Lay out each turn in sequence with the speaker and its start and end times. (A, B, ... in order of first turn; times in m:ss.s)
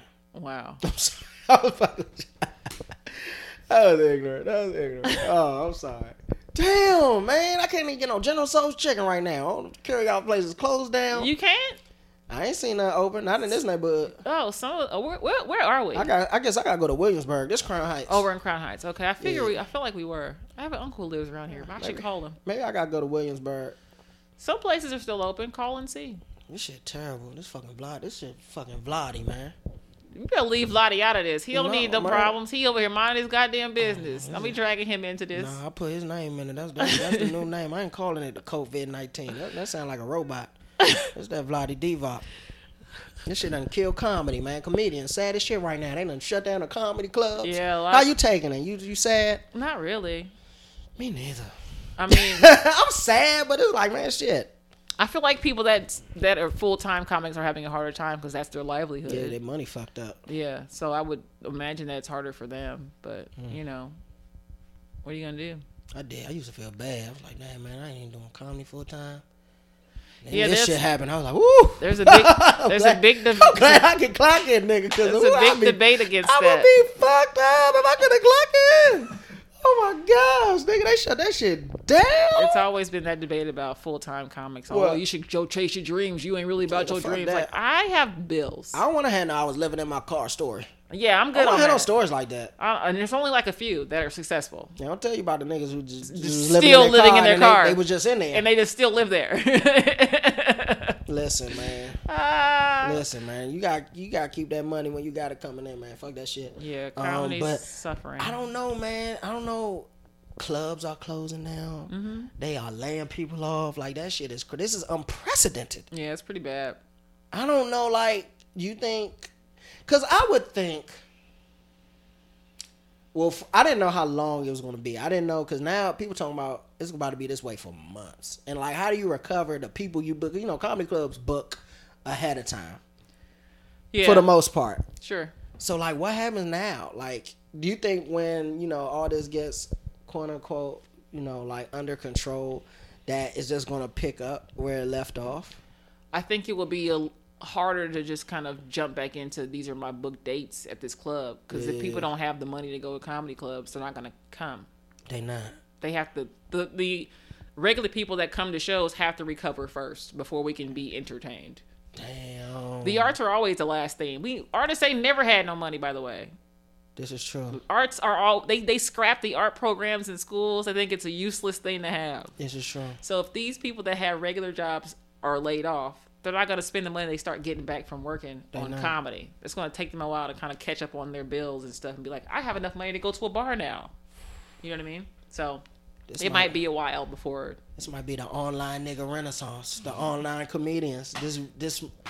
0:00.3-0:00.8 A
0:00.8-0:11.3 B
0:11.1-0:11.8 A
0:12.3-0:14.2 B
0:14.2-0:16.1 A
0:15.9-0:18.2 B
0:18.1-0:22.4 A
0:19.2-0:19.6 B
0:21.5-0:23.8 B
0:24.4-0:26.2 A
0:26.5-0:29.6 B
0:30.1-0:35.6 A
0:31.5-0:32.4 B
0:33.8-0:34.6 B
0:35.3-0:40.5 B
0:36.8-0:37.3 A
0:41.1-0:42.2 B
0:43.3-0:49.4 B
0:47.4-0:48.1 A
0:49.5-0:50.3 A
0:51.0-0:51.5 B
0:52.0-0:52.5 A
0:52.1-0:54.5 B
0:55.0-0:59.4 A
0:59.1-1:00.2 B
1:00.3-1:04.0 A
1:05.0-1:05.6 A
1:05.9-1:09.2 B
1:10.2-1:22.7 B
1:10.3-1:10.8 A
1:11.8-1:13.8 A
1:15.0-1:16.7 A
1:22.4-1:28.8 A
1:24.7-1:25.0 B
1:26.7-1:27.6 B
1:28.7-1:30.7 B
1:30.9-1:31.9 A
1:31.3-1:32.5 B
1:32.6-1:34.8 A
1:34.8-1:38.4 B
1:36.0-1:37.8 A
1:38.3-1:41.0 A
1:41.1-1:42.0 B
1:42.1-1:43.0 A
1:42.8-1:55.9 B
1:46.6-1:48.4 A
1:51.9-1:52.3 A
1:55.9-1:56.8 A
1:57.3-1:59.3 B
1:59.9-2:00.9 B
2:03.1-2:12.8 B
2:13.9-2:14.3 A
2:14.0-2:14.8 B
2:15.0-2:15.3 A
2:15.6-2:25.6 B
2:26.1-2:34.7 A
2:31.5-2:32.1 B
2:35.1-2:35.6 B
2:35.8-2:41.6 A
2:42.0-2:43.2 B
2:42.8-2:46.3 A
2:47.0-2:47.6 B
2:47.5-2:52.3 A
2:52.4-2:53.0 B
2:53.0-3:03.9 A
2:58.5-2:59.0 B
3:04.6-3:05.6 A
3:06.1-3:06.6 B
3:06.2-3:07.6 A
3:07.8-3:11.9 B